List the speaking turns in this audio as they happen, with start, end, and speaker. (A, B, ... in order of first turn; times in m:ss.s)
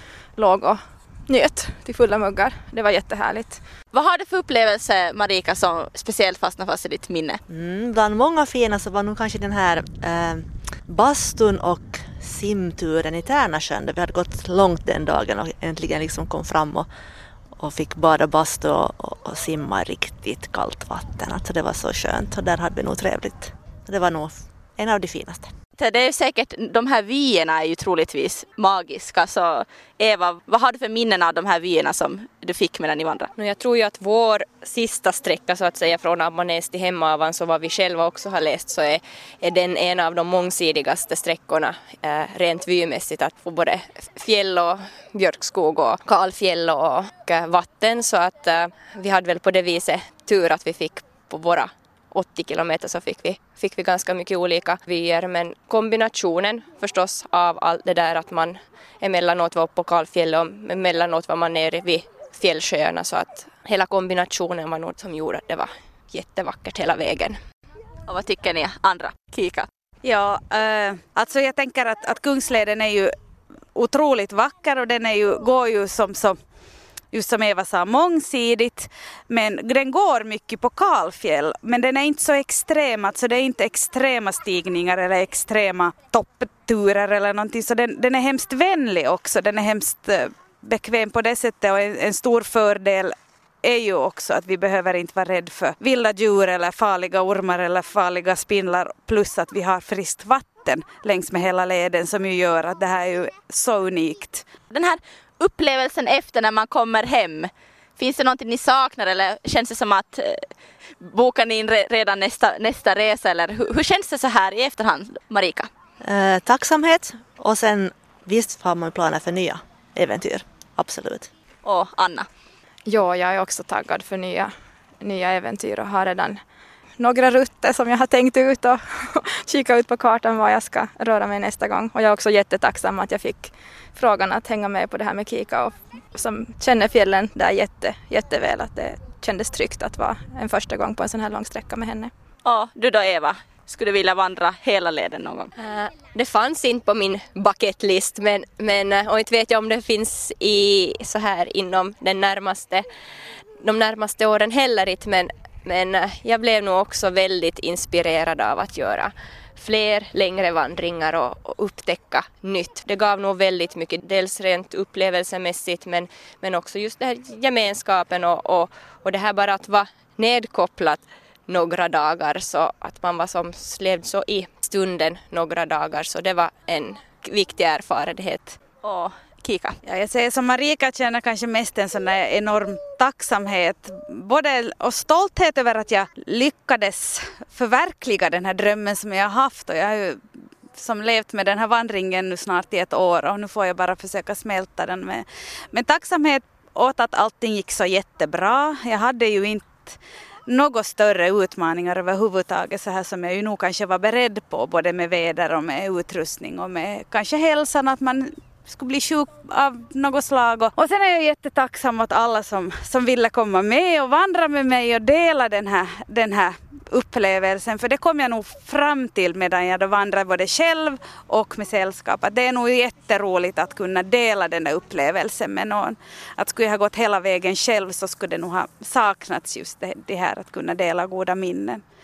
0:00.4-0:03.6 A
0:03.9-0:07.4 B
0:07.5-0:16.9 C
0:17.6-0:25.5 C
0:25.8-0:33.3 B
0:33.3-1:07.4 D
1:08.1-1:09.7 B
1:10.0-1:13.1 E
1:13.7-1:16.4 E
1:17.1-1:44.5 E
1:44.7-1:50.5 B
1:51.0-1:55.7 B
1:56.0-2:01.3 C
2:01.6-2:02.3 B
2:02.8-2:06.4 A
2:07.0-2:22.1 A
2:22.4-2:25.5 B
2:25.6-2:32.8 D
2:33.6-2:58.6 D
2:58.8-2:59.7 B
2:59.8-3:10.2 E
3:10.7-3:51.8 E